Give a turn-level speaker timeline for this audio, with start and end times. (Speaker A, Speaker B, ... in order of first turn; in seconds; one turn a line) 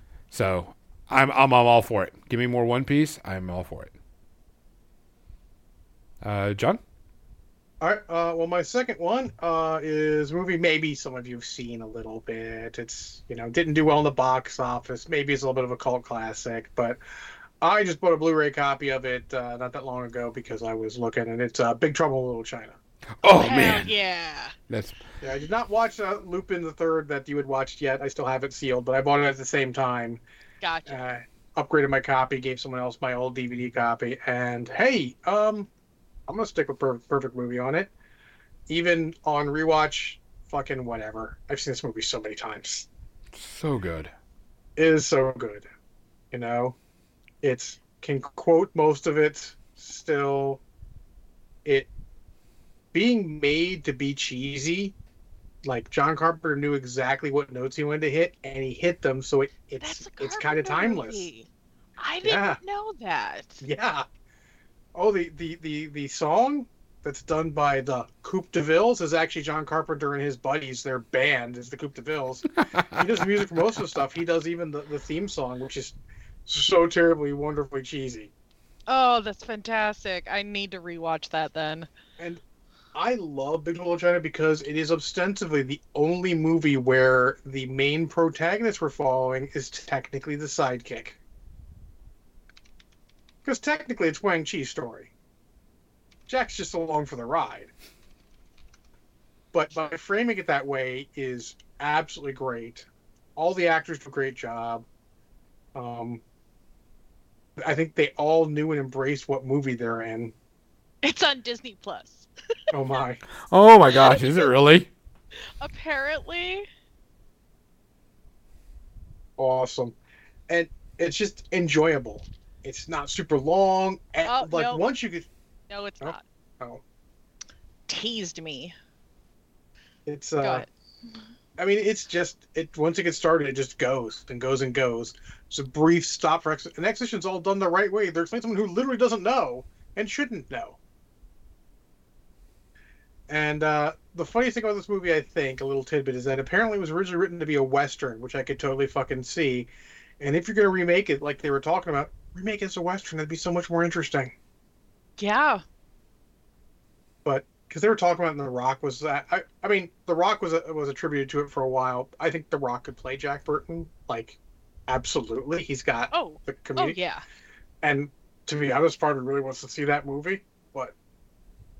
Speaker A: 0.3-3.9
Speaker A: 6.2-6.8
Speaker B: 7.8-17.0
Speaker B: 17.6-22.8
Speaker A: 23.2-23.9
Speaker C: 23.4-24.5
Speaker A: 24.7-25.0
Speaker B: 25.2-30.2
Speaker C: 30.6-31.0
Speaker B: 30.9-35.7
Speaker B: 36.3-37.9
Speaker B: 38.7-42.9
Speaker A: 43.3-44.1
Speaker B: 44.8-45.6
Speaker B: 46.3-46.8
Speaker B: 47.4-50.6
Speaker B: 51.6-51.9
Speaker B: 52.9-54.9
Speaker B: 55.6-61.2
Speaker C: 59.8-61.5
Speaker C: 62.0-63.6
Speaker B: 62.2-62.6
Speaker B: 63.6-64.0
Speaker B: 65.0-75.9
Speaker A: 72.7-73.0
Speaker B: 76.5-78.3
Speaker C: 78.9-81.9
Speaker B: 82.9-91.2
Speaker B: 93.4-95.1
Speaker B: 96.3-97.7
Speaker B: 99.5-104.8
Speaker B: 105.7-106.2
Speaker B: 107.6-110.3
Speaker C: 111.0-112.3
Speaker B: 112.7-113.2
Speaker A: 113.5-114.9
Speaker C: 113.9-114.5
Speaker C: 115.6-116.7
Speaker B: 119.4-120.0
Speaker B: 120.5-125.3
Speaker C: 124.2-124.8
Speaker C: 125.7-126.2
Speaker B: 126.0-126.8
Speaker C: 127.9-128.7
Speaker B: 130.1-130.6
Speaker C: 130.4-130.7
Speaker B: 131.6-140.8
Speaker B: 143.3-149.7
Speaker B: 150.2-154.3
Speaker C: 155.2-155.6
Speaker B: 157.2-167.0
Speaker C: 166.1-167.2
Speaker B: 167.8-170.9